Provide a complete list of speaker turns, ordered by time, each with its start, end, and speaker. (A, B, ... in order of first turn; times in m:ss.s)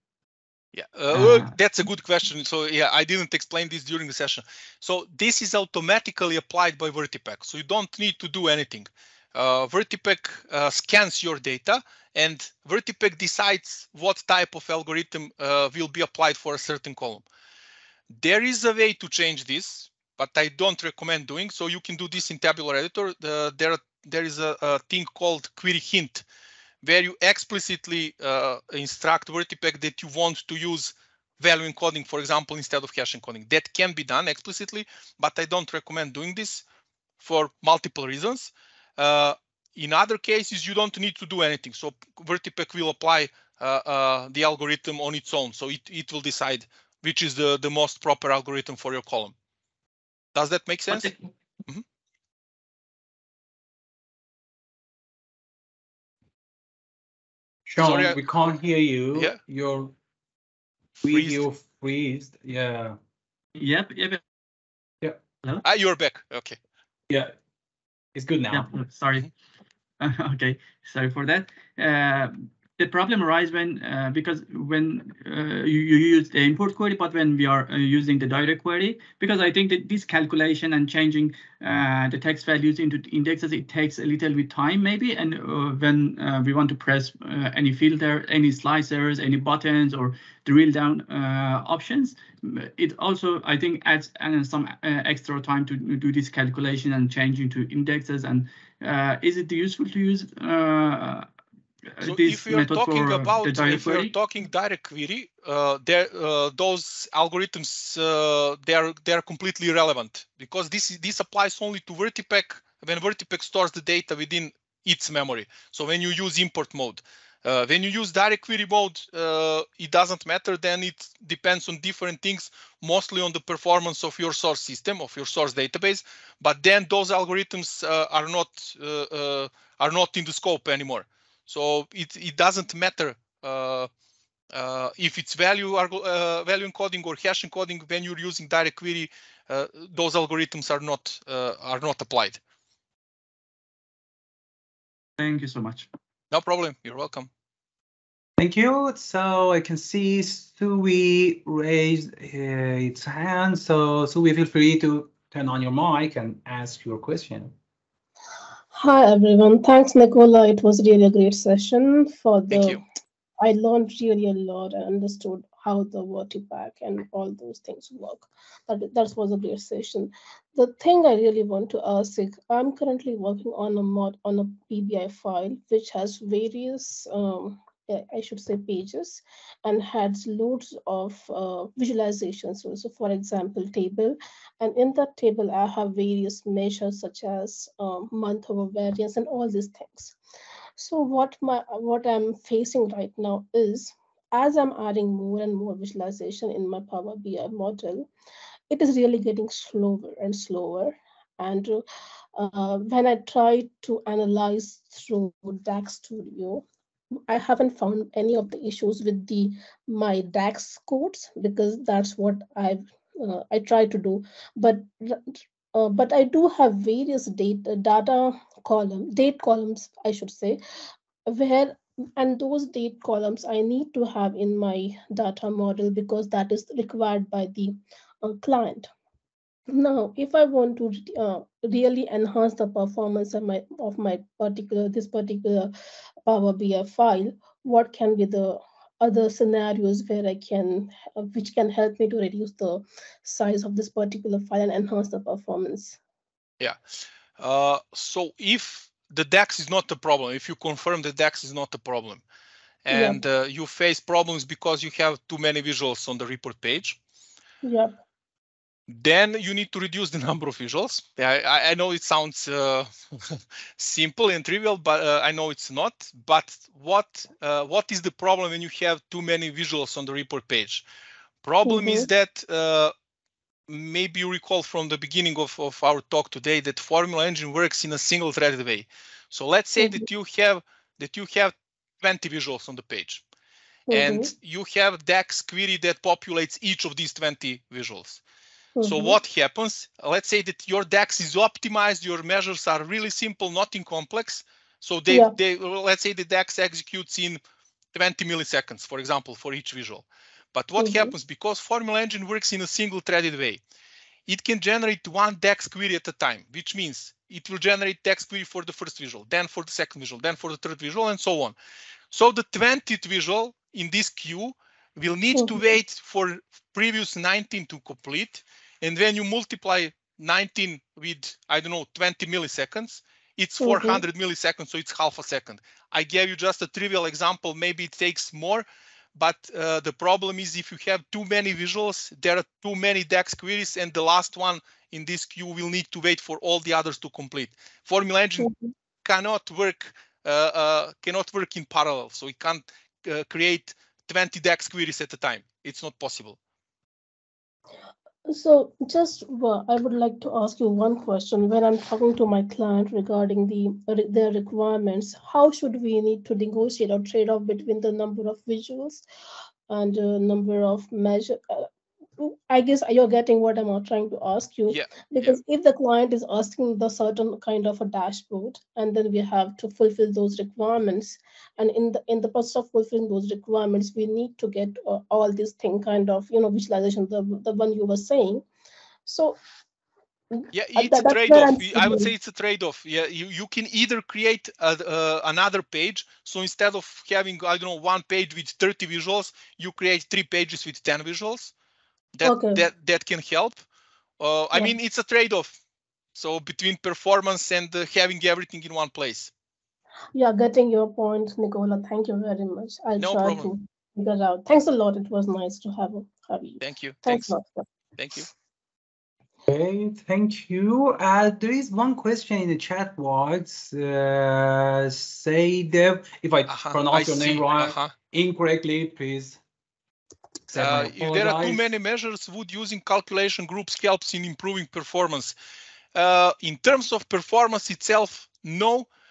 0:00.7-0:17.2 A
0:01.1-0:01.5 B
0:18.1-0:26.2 A
0:26.8-0:36.6 A
0:37.2-0:49.3 A
0:50.3-0:51.1 A
0:57.6-0:59.9 C
0:57.8-0:58.2 A
0:59.1-0:59.4 A
1:01.0-1:01.4 A
1:01.0-1:03.0 C
1:03.6-1:04.2 B
1:05.6-1:06.6 A
1:08.1-1:08.7 C
1:08.5-1:09.3 B
1:10.0-1:41.3 B
1:42.0-1:44.1 B
1:42.0-2:13.9 A
2:14.5-2:22.4 A
2:25.2-2:25.9 B
2:26.3-2:27.3 A
2:28.4-2:37.5 C
2:38.7-2:42.8 D
2:42.5-2:42.8 A
2:43.4-3:10.2 D
3:10.8-3:18.1 D
3:18.7-3:21.8 D
3:22.3-3:26.6 D
3:27.3-3:40.6 D
3:41.2-3:48.9 D
3:49.7-3:55.7 D
3:56.3-4:06.0 D
4:07.4-4:12.2 A
4:12.8-4:17.0 A
4:12.9-4:13.2 D
4:17.6-4:17.9 D
4:18.9-4:30.8 A
4:31.4-4:32.9 A
4:31.6-4:32.1 D
4:33.7-4:43.2 A
4:39.8-4:40.0 D
4:43.9-4:44.3 D
4:43.9-4:48.2 A
4:48.8-4:49.2 D
4:48.8-4:57.4 A
4:55.1-4:55.4 D
4:57.9-5:03.6 A
5:00.8-5:01.1 D
5:04.3-5:11.6 A
5:12.1-5:38.5 A
5:15.3-5:15.7 D
5:23.6-5:24.0 D
5:38.4-5:38.7 D
5:39.0-5:46.4 A
5:48.3-5:59.0 D
5:59.7-6:01.7 D
6:02.2-6:18.4 D
6:04.7-6:05.4 A
6:19.0-6:19.4 D
6:20.3-6:22.1 D
6:20.5-6:31.5 A
6:32.1-6:33.6 A
6:32.2-6:32.6 D
6:34.2-6:35.6 A
6:36.1-6:39.3 A
6:40.1-6:47.6 D
6:43.0-6:43.5 A
6:46.6-6:47.3 A
6:48.0-6:48.3 A
6:49.5-6:59.4 C
6:56.5-6:57.9 A
7:00.5-7:01.7 C
7:00.5-7:05.3 A
7:05.9-7:08.9 A